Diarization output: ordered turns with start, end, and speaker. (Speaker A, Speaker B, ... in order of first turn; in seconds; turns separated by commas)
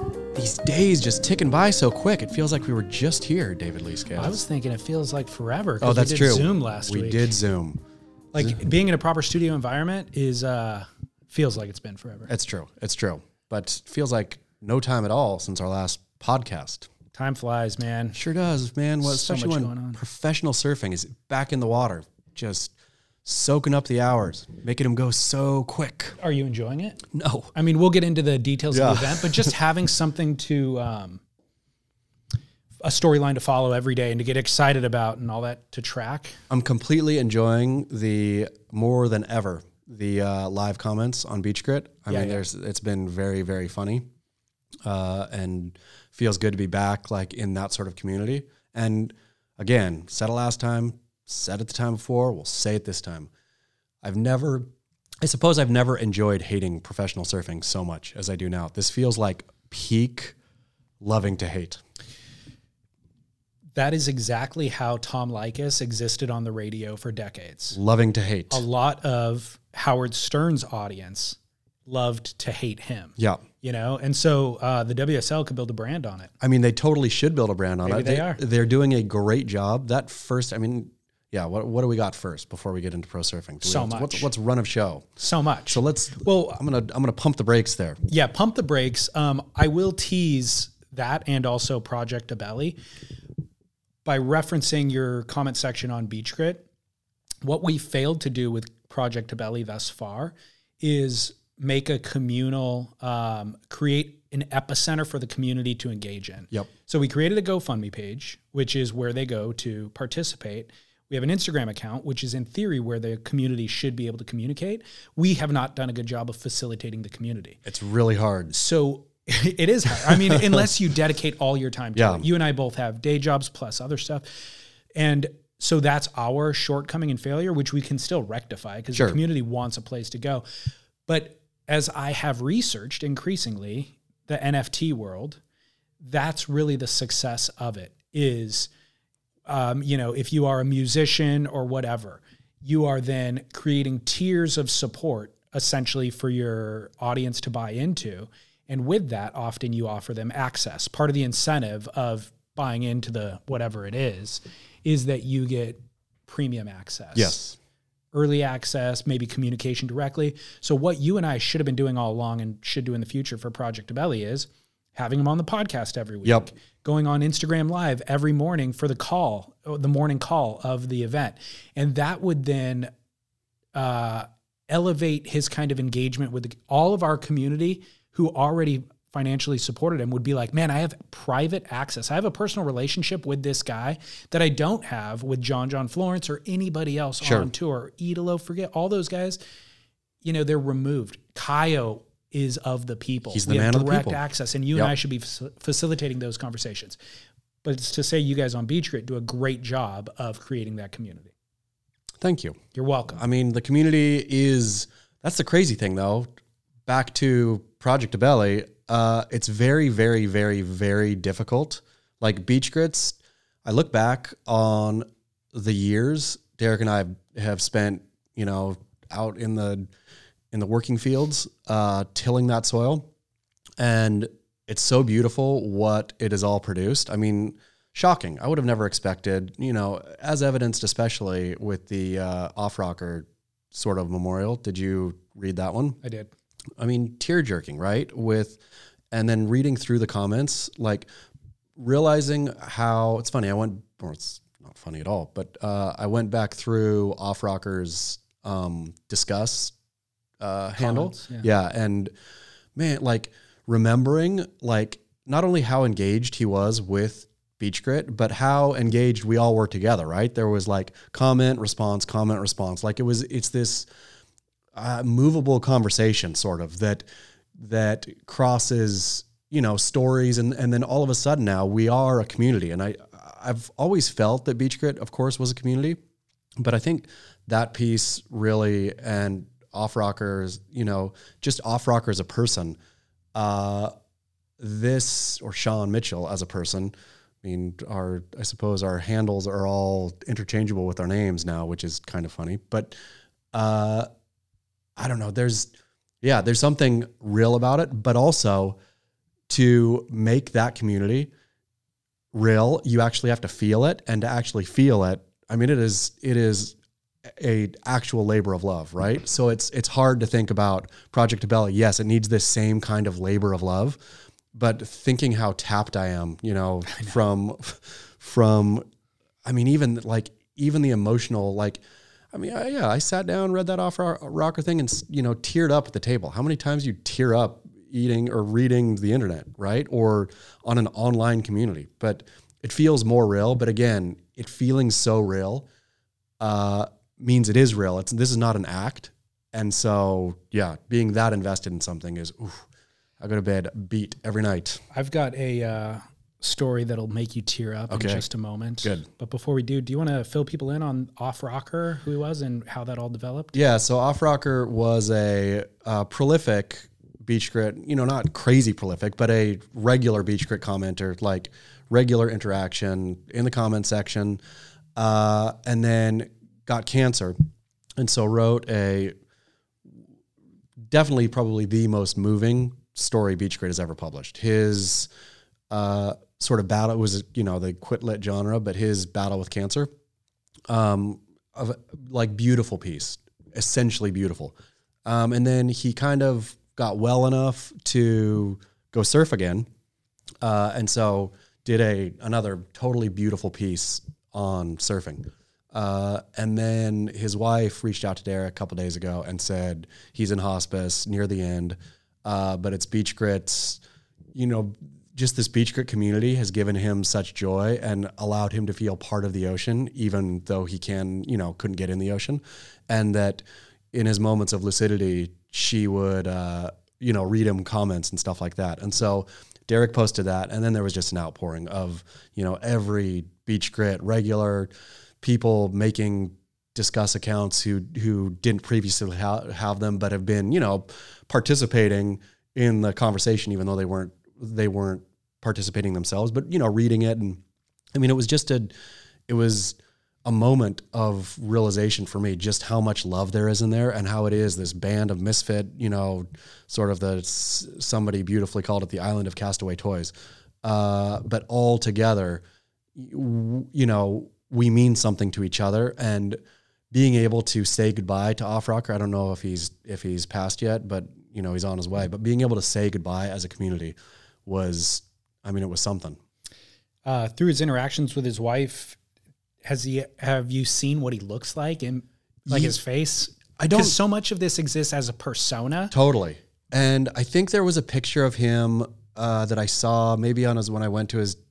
Speaker A: 0.3-4.4, Speaker B: 4.1-7.3, Speaker A: 5.8-7.8, Speaker B: 8.3-12.3, Speaker A: 12.3-16.9, Speaker B: 17.1-18.2, Speaker A: 18.1-22.7, Speaker B: 19.0-20.0, Speaker A: 23.2-26.1, Speaker B: 26.2-27.0, Speaker A: 27.1-27.5, Speaker B: 27.5-31.2, Speaker A: 28.7-29.5, Speaker B: 32.8-36.4, Speaker A: 36.5-44.0, Speaker B: 42.1-42.4, Speaker A: 44.8-53.3, Speaker A: 54.0-54.7, Speaker A: 55.2-60.4, Speaker A: 61.0-61.8, Speaker B: 63.8-67.8, Speaker A: 67.7-68.6, Speaker B: 68.5-76.3, Speaker A: 73.2-73.4, Speaker A: 76.4-85.1, Speaker B: 77.8-78.4, Speaker B: 83.6-84.3, Speaker B: 85.2-86.5, Speaker A: 85.7-88.0, Speaker B: 88.1-92.8, Speaker B: 94.0-96.7, Speaker B: 97.4-117.6, Speaker A: 117.7-118.5, Speaker B: 118.5-130.4, Speaker A: 120.0-120.6, Speaker A: 122.0-122.2, Speaker A: 128.9-129.2, Speaker B: 131.1-135.4, Speaker B: 136.0-138.7, Speaker B: 139.5-157.4, Speaker A: 157.1-157.6, Speaker B: 158.1-172.9, Speaker A: 166.2-166.5, Speaker B: 173.7-189.4, Speaker A: 187.2-187.5, Speaker B: 190.2-197.0, Speaker A: 193.3-194.2, Speaker B: 197.6-201.3, Speaker A: 202.2-202.6, Speaker B: 202.7-203.2, Speaker A: 203.2-206.3, Speaker A: 206.8-219.9, Speaker A: 220.5-223.1, Speaker A: 223.8-236.0, Speaker B: 236.0-236.3, Speaker A: 236.8-238.6, Speaker A: 239.1-241.1, Speaker A: 241.8-249.7, Speaker A: 250.4-252.1, Speaker B: 250.8-251.5, Speaker A: 252.8-263.9, Speaker A: 264.7-276.0, Speaker A: 276.6-282.8, Speaker A: 283.3-283.9, Speaker A: 284.6-292.9, Speaker A: 293.5-294.1, Speaker A: 295.0-295.7, Speaker A: 296.2-298.8, Speaker A: 299.5-301.3, Speaker A: 302.3-306.8, Speaker A: 307.3-314.0, Speaker A: 314.5-318.8, Speaker B: 316.9-317.2, Speaker A: 319.4-321.8, Speaker A: 322.3-335.7, Speaker A: 336.4-342.6, Speaker A: 343.2-344.8, Speaker B: 344.9-353.6, Speaker A: 347.9-348.2, Speaker A: 353.5-364.4, Speaker A: 364.9-367.4, Speaker A: 368.0-369.1, Speaker A: 370.9-375.1, Speaker A: 375.7-379.9, Speaker A: 380.7-389.7, Speaker A: 390.4-403.8, Speaker A: 404.3-424.7, Speaker A: 425.2-437.4, Speaker A: 437.9-438.7, Speaker A: 439.3-450.1, Speaker A: 450.6-452.4, Speaker A: 452.9-456.4, Speaker A: 456.9-466.2, Speaker B: 467.1-469.0, Speaker B: 469.6-475.9, Speaker A: 472.4-472.7, Speaker A: 473.6-473.9, Speaker A: 475.9-481.4